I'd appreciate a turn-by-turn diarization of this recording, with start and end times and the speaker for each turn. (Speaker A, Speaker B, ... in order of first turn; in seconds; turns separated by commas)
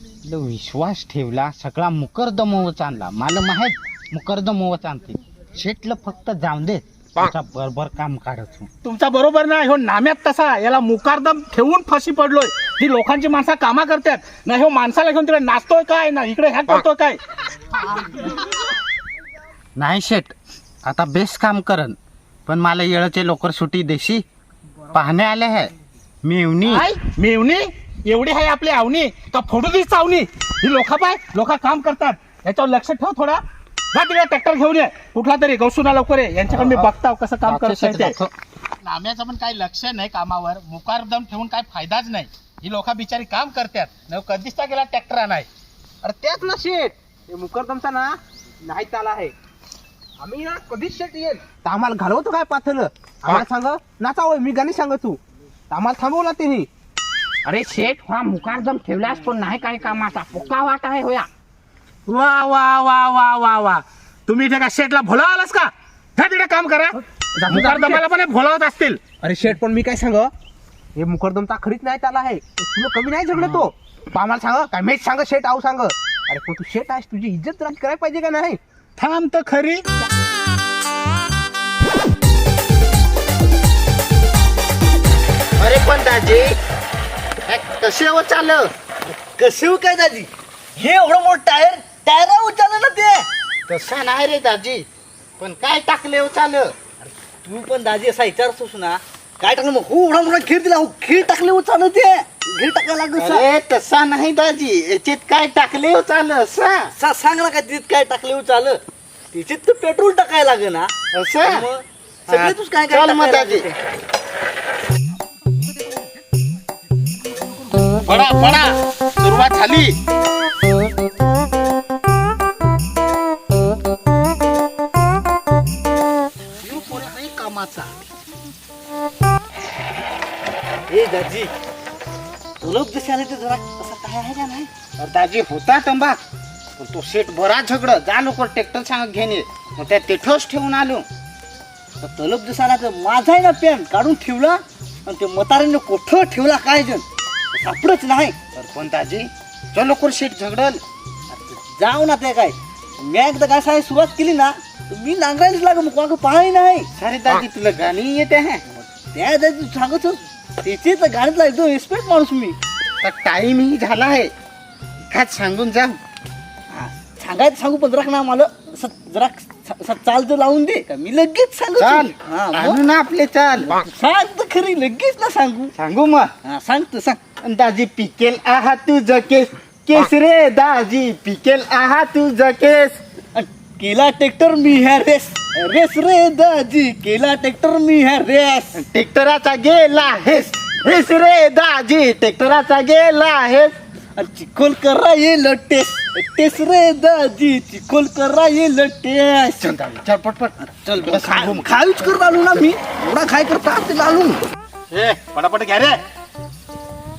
Speaker A: 0.2-8.7, Speaker B: 8.8-17.2, Speaker A: 19.8-24.2, Speaker A: 24.9-25.7, Speaker A: 26.2-26.9, Speaker B: 26.7-33.4, Speaker B: 33.9-38.1, Speaker A: 36.5-36.9, Speaker A: 37.4-38.3, Speaker B: 38.8-45.5, Speaker C: 46.0-49.3, Speaker C: 50.2-55.2, Speaker C: 55.7-56.7, Speaker D: 57.4-61.3, Speaker B: 62.0-69.0, Speaker C: 67.3-68.0, Speaker C: 69.2-70.3, Speaker C: 70.9-78.6, Speaker B: 79.0-79.8, Speaker A: 85.6-86.6, Speaker A: 87.5-88.7, Speaker E: 89.0-93.3, Speaker A: 93.7-94.9, Speaker A: 95.4-96.7, Speaker E: 97.0-103.5, Speaker A: 103.2-106.9, Speaker E: 106.9-108.8, Speaker E: 109.3-113.8, Speaker A: 111.1-111.7, Speaker A: 112.3-113.7, Speaker B: 118.0-120.0, Speaker E: 126.6-128.0, Speaker E: 130.9-131.5, Speaker E: 132.6-134.7, Speaker A: 135.0-136.2, Speaker A: 136.8-141.0, Speaker E: 142.0-148.4, Speaker A: 148.5-150.8, Speaker E: 151.3-156.9, Speaker A: 156.9-158.6, Speaker E: 158.9-162.6, Speaker A: 163.0-164.3, Speaker A: 165.1-166.0, Speaker E: 166.7-172.8, Speaker A: 171.8-173.7, Speaker E: 173.6-175.7, Speaker A: 175.8-176.3, Speaker E: 176.4-177.2, Speaker A: 177.4-183.0, Speaker E: 183.3-188.7, Speaker A: 188.7-193.7, Speaker E: 194.2-199.6, Speaker A: 199.6-201.7, Speaker E: 200.6-204.4, Speaker B: 204.9-206.0